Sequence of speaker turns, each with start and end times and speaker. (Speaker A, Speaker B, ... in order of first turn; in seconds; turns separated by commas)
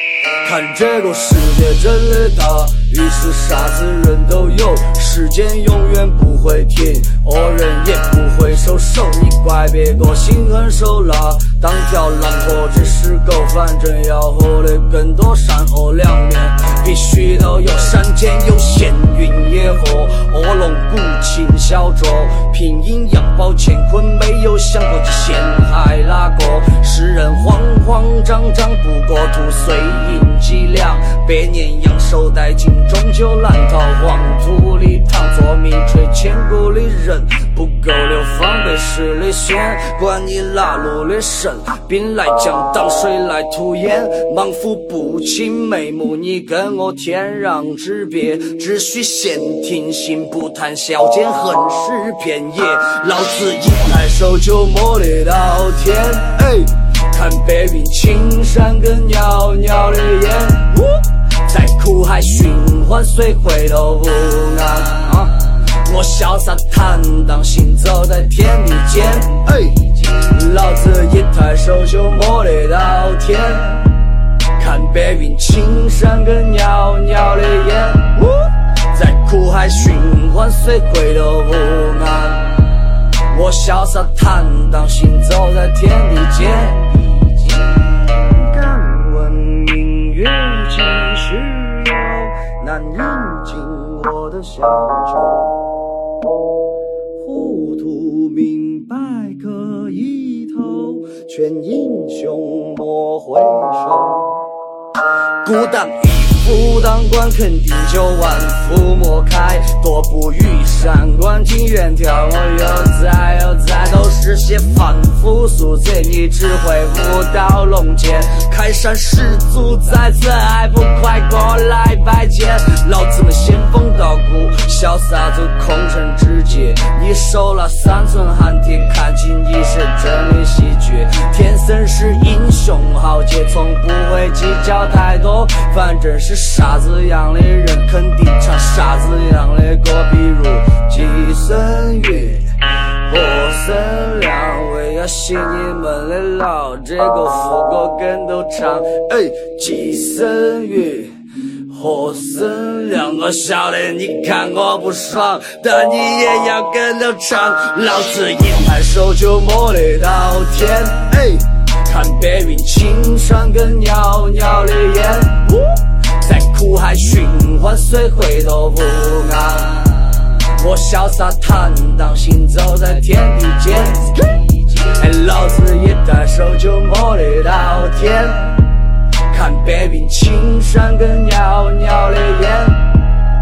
Speaker A: 0.4-73.9, Speaker A: 74.6-78.3, Speaker A: 78.9-82.5, Speaker A: 83.3-95.5, Speaker A: 97.2-104.4, Speaker A: 105.4-142.4, Speaker A: 143.1-151.2, Speaker A: 151.7-165.6, Speaker A: 166.2-178.5, Speaker A: 179.3-182.8